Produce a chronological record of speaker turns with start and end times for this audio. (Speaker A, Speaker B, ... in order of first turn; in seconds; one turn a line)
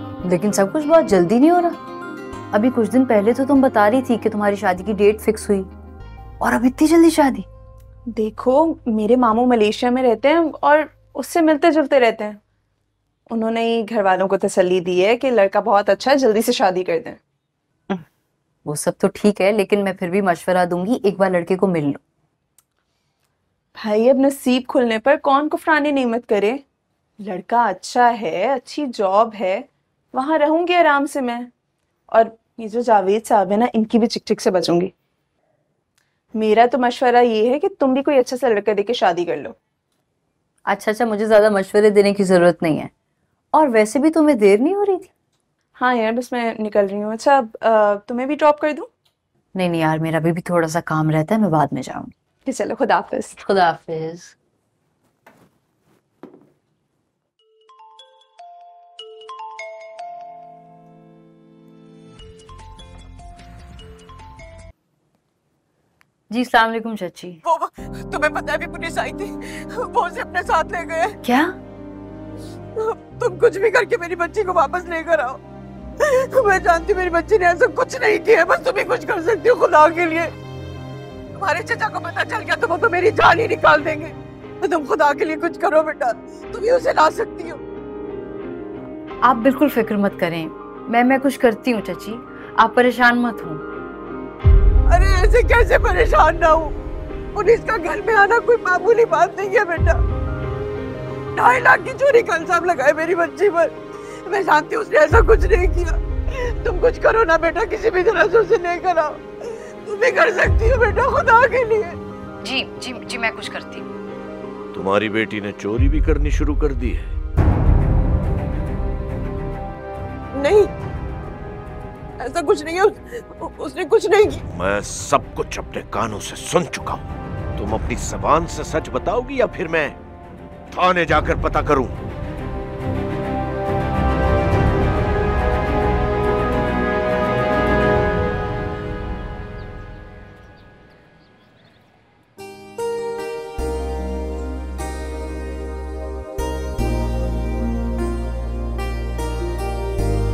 Speaker A: 0.2-1.8
Speaker A: 2.5-5.7
Speaker A: 6.4-7.5
Speaker B: 8.1-12.4
Speaker B: 13.3-17.2
Speaker A: 18.6-22.0
Speaker B: 23.8-26.6
Speaker B: 27.2-31.5
Speaker B: 32.1-34.9
Speaker B: 36.4-39.5
Speaker A: 40.7-42.9
Speaker A: 43.5-45.1
Speaker B: 45.8-48.9
Speaker A: 49.5-52.1
Speaker B: 52.5-53.4
Speaker A: 53.4-54.3
Speaker A: 66.3-67.4
Speaker C: 67.4-71.2
Speaker A: 71.2-71.5
Speaker C: 72.8-75.4
Speaker C: 76.0-80.3
Speaker C: 81.4-87.6
Speaker A: 89.2-93.6
Speaker C: 94.9-96.7
Speaker C: 97.3-100.0
Speaker C: 101.3-103.7
Speaker C: 104.2-112.0
Speaker A: 112.4-113.8
Speaker D: 114.7-117.1
Speaker C: 120.3-120.7
Speaker C: 122.2-124.4
Speaker D: 124.6-127.0
Speaker D: 127.6-129.9
Speaker D: 130.7-132.0